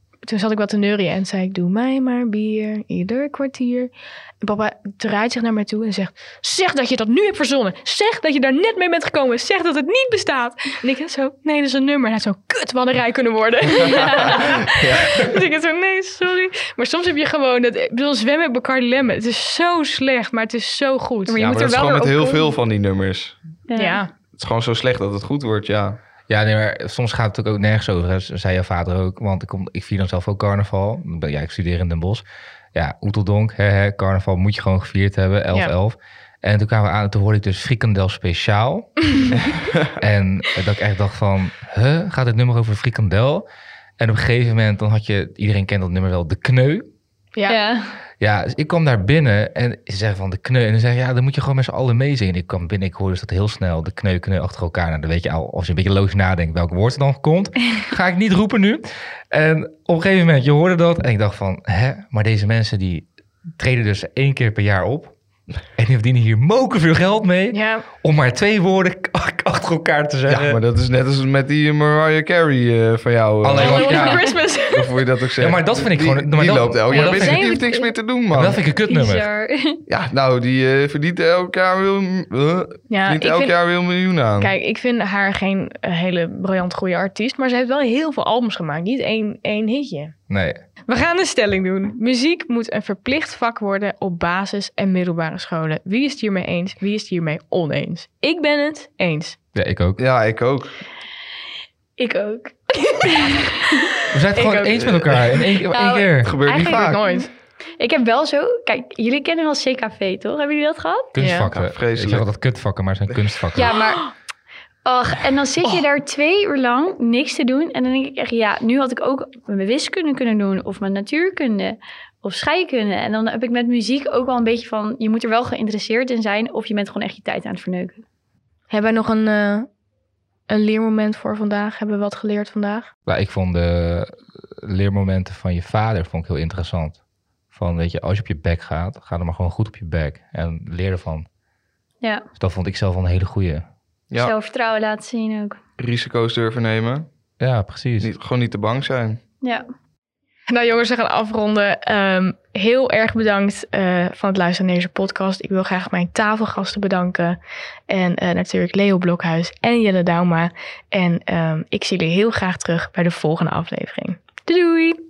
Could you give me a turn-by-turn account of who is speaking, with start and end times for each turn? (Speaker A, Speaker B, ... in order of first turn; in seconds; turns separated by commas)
Speaker A: 0.3-21.7, Speaker B: 14.7-15.3, Speaker C: 21.3-22.5, Speaker B: 21.4-23.4, Speaker C: 23.7-24.0, Speaker A: 23.8-24.1, Speaker B: 24.3-26.0, Speaker D: 26.3-39.2, Speaker D: 40.0-43.5, Speaker D: 44.0-46.9, Speaker C: 47.5-48.0, Speaker D: 48.2-70.6, Speaker A: 67.5-67.8, Speaker B: 70.3-78.6, Speaker D: 73.4-74.2, Speaker A: 73.5-75.0, Speaker D: 75.4-77.5, Speaker A: 77.0-77.9, Speaker C: 77.1-77.5, Speaker D: 78.3-79.3, Speaker C: 78.9-79.8, Speaker B: 79.9-84.5, Speaker A: 82.9-83.9, Speaker A: 84.4-90.2, Speaker D: 90.3-90.6, Speaker A: 90.9-99.4, Speaker D: 99.5-100.0, Speaker B: 100.0-100.8, Speaker C: 102.0-104.1, Speaker D: 104.1-106.3, Speaker A: 104.3-105.0, Speaker B: 104.8-105.2, Speaker C: 105.7-111.1, Speaker B: 106.2-107.0, Speaker A: 106.5-107.3, Speaker D: 111.2-113.7, Speaker A: 111.2-111.5, Speaker B: 111.5-112.3, Speaker C: 113.5-114.2, Speaker C: 114.8-128.0, Speaker A: 128.7-129.7, Speaker A: 130.5-132.9, Speaker D: 133.1-137.0, Speaker D: 137.5-141.3, Speaker C: 142.0-142.3, Speaker D: 142.4-143.7, Speaker C: 144.2-145.6, Speaker B: 145.8-147.1, Speaker D: 147.4-148.1, Speaker B: 148.0-149.2, Speaker A: 150.5-157.4, Speaker A: 157.9-164.9